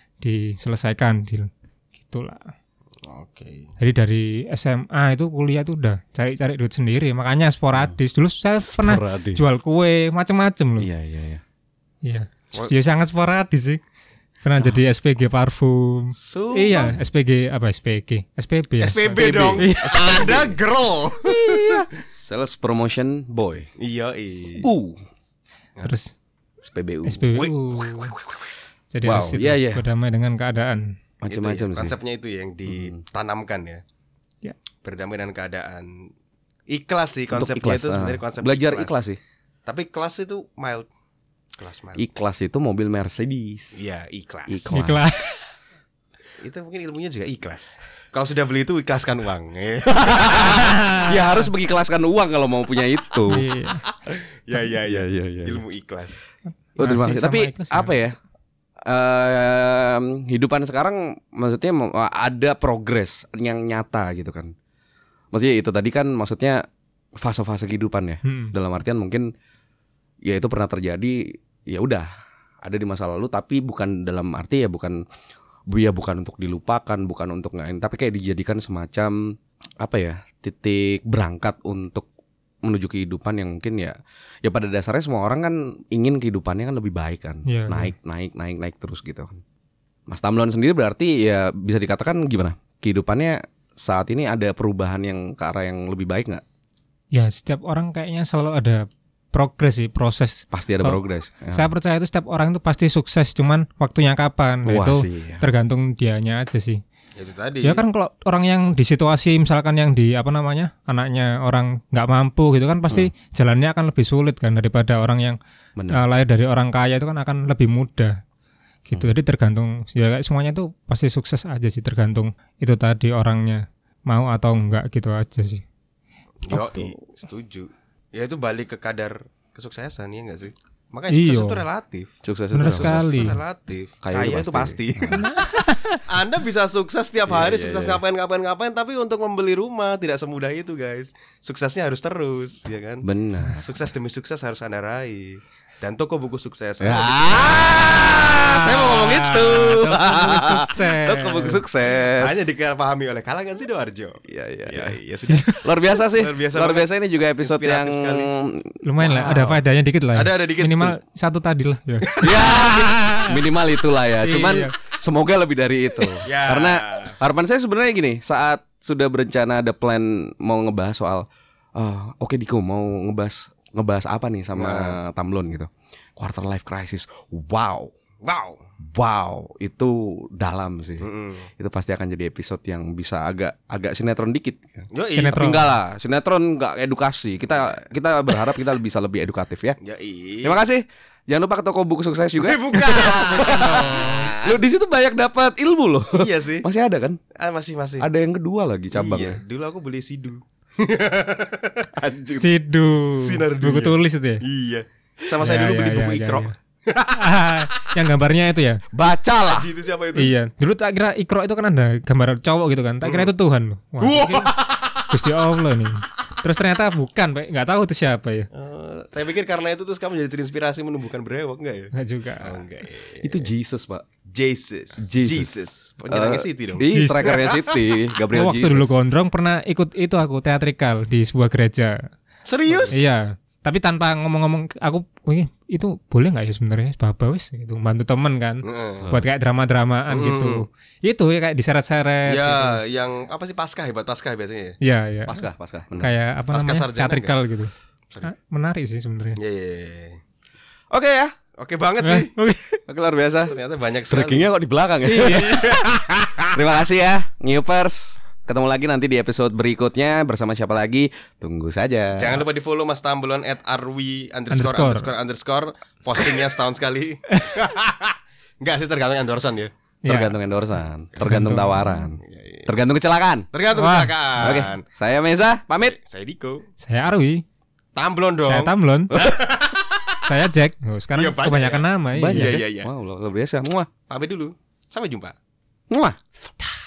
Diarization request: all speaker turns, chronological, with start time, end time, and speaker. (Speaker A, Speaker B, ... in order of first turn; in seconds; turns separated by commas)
Speaker A: 0.2-2.5, Speaker B: 3.0-3.7, Speaker A: 3.8-10.9, Speaker C: 8.6-9.4, Speaker C: 10.8-11.4, Speaker A: 12.0-13.8, Speaker A: 14.4-20.1, Speaker B: 16.2-17.0, Speaker B: 18.8-21.4, Speaker C: 19.1-20.6, Speaker C: 21.4-23.7, Speaker A: 21.4-21.8, Speaker B: 23.8-24.7, Speaker C: 24.5-25.0, Speaker A: 25.8-26.1, Speaker C: 26.6-27.3, Speaker A: 27.1-28.1, Speaker B: 27.3-28.4, Speaker A: 28.9-30.9, Speaker C: 29.0-29.8, Speaker C: 31.2-32.0, Speaker B: 31.3-33.8, Speaker C: 32.7-33.0, Speaker B: 34.8-36.1, Speaker B: 36.7-39.0, Speaker C: 37.3-39.2, Speaker B: 39.6-40.9, Speaker B: 41.5-42.0, Speaker C: 42.0-43.8, Speaker B: 43.7-44.9, Speaker C: 44.5-45.0, Speaker A: 44.7-45.4, Speaker B: 46.4-50.8, Speaker C: 49.9-53.4, Speaker A: 50.5-51.5, Speaker A: 53.3-53.8, Speaker B: 53.9-56.2, Speaker C: 54.8-55.6, Speaker C: 56.8-58.1, Speaker A: 56.8-58.0, Speaker C: 58.9-64.5, Speaker C: 65.3-66.7, Speaker C: 67.2-69.3, Speaker A: 68.2-68.5, Speaker C: 70.2-72.1, Speaker C: 72.6-75.0, Speaker C: 75.7-82.1, Speaker C: 82.6-89.4, Speaker A: 87.5-87.9, Speaker C: 90.1-96.4, Speaker A: 97.1-101.0, Speaker C: 100.5-101.7, Speaker A: 101.5-106.8, Speaker C: 104.7-105.5, Speaker B: 107.2-107.8, Speaker A: 107.6-115.4, Speaker C: 115.8-116.0, Speaker A: 115.9-118.2, Speaker A: 118.9-125.6, Speaker B: 126.4-135.4, Speaker A: 126.5-126.9, Speaker A: 131.1-131.6, Speaker C: 132.2-133.1, Speaker A: 132.5-133.4, Speaker C: 134.0-135.3, Speaker A: 135.1-136.0, Speaker B: 136.0-143.0, Speaker C: 137.3-138.0, Speaker C: 143.0-143.6, Speaker B: 143.6-149.8, Speaker C: 146.8-152.4, Speaker A: 148.9-151.6, Speaker B: 152.2-158.3, Speaker C: 154.3-155.0, Speaker A: 155.3-155.6, Speaker C: 155.6-159.6, Speaker A: 158.8-163.4, Speaker B: 160.1-160.9, Speaker B: 162.0-162.7, Speaker C: 162.2-177.9, Speaker A: 164.2-164.7, Speaker B: 166.2-167.2, Speaker B: 174.5-175.0, Speaker B: 178.2-178.6, Speaker C: 178.8-189.8, Speaker B: 181.0-181.5, Speaker B: 184.9-185.6, Speaker A: 185.2-185.7, Speaker B: 189.8-190.6, Speaker C: 190.4-197.2, Speaker B: 192.4-194.5, Speaker A: 193.4-194.3, Speaker B: 196.1-196.7, Speaker B: 197.3-198.1, Speaker C: 198.0-199.4, Speaker B: 198.9-202.5, Speaker A: 202.4-204.4, Speaker B: 203.2-207.3, Speaker A: 205.4-206.5, Speaker A: 207.1-208.8, Speaker C: 208.9-209.7, Speaker B: 209.4-210.3, Speaker A: 210.2-218.5, Speaker B: 213.0-213.3, Speaker B: 214.0-215.2, Speaker B: 218.5-223.5, Speaker A: 221.9-222.6, Speaker C: 223.2-224.0, Speaker B: 224.3-227.9, Speaker C: 225.0-225.6, Speaker C: 226.1-228.9, Speaker A: 226.9-227.6, Speaker A: 228.3-232.0, Speaker B: 232.5-233.0, Speaker A: 232.9-242.8, Speaker B: 238.6-239.1, Speaker B: 240.1-240.6, Speaker B: 242.2-244.8, Speaker A: 244.8-245.4, Speaker C: 245.2-246.1, Speaker A: 246.0-247.7, Speaker B: 246.5-247.4, Speaker A: 248.2-249.4, Speaker B: 249.4-250.2, Speaker C: 250.9-251.3, Speaker B: 251.6-252.3, Speaker A: 252.0-252.8, Speaker C: 252.9-253.6, Speaker B: 253.5-254.5, Speaker C: 254.1-255.8, Speaker B: 255.1-256.5, Speaker A: 255.3-255.8, Speaker C: 256.5-262.4, Speaker B: 262.2-269.7, Speaker A: 264.5-265.1, Speaker A: 270.0-270.4, Speaker C: 270.1-273.5, Speaker A: 271.2-272.1, Speaker B: 272.2-272.7, Speaker B: 273.5-274.8, Speaker A: 273.7-274.6, Speaker C: 274.4-275.9, Speaker B: 275.7-276.6, Speaker A: 276.8-277.4, Speaker B: 277.9-280.2, Speaker A: 278.4-279.1, Speaker C: 279.1-279.4, Speaker A: 280.2-282.5, Speaker B: 281.1-282.9, Speaker C: 282.1-283.9, Speaker B: 284.1-285.3, Speaker C: 285.9-286.2